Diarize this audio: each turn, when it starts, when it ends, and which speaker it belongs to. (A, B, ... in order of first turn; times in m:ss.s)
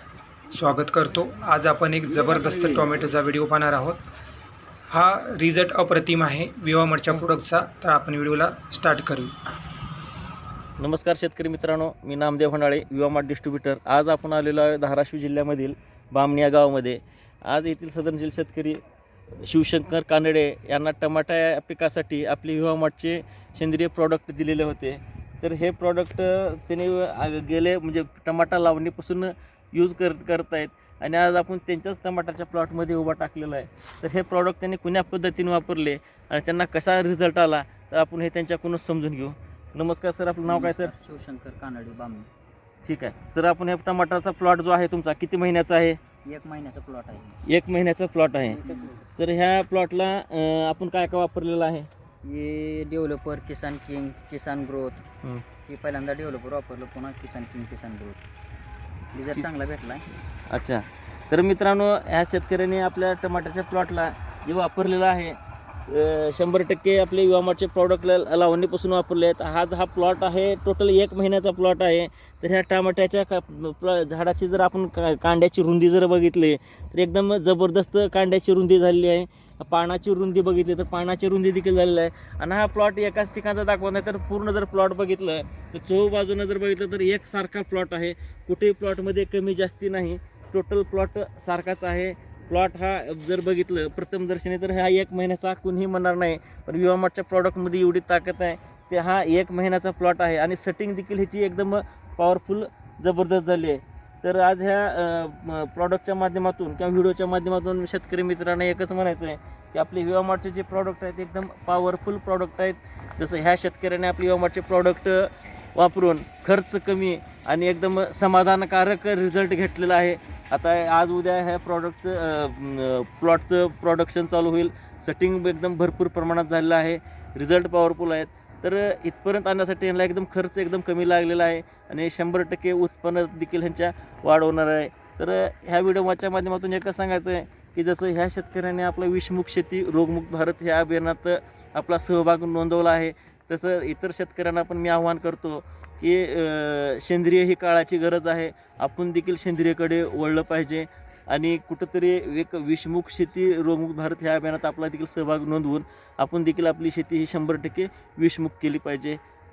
0:00.5-0:04.0 A
0:02.1-0:03.1 B
0:04.9-0:09.3 A
0:10.8-0:18.8 B
0:19.4-0:40.9 B
0:40.4-0:42.3 C
0:42.8-0:46.0 B
0:46.2-0:47.4 C
0:47.4-0:48.6 B
0:48.5-0:49.0 C
0:49.2-0:51.9 B
0:52.2-0:55.0 C
0:55.6-0:58.2 C
0:59.1-1:00.0 C
1:00.5-1:05.4 B
1:05.9-2:39.2 B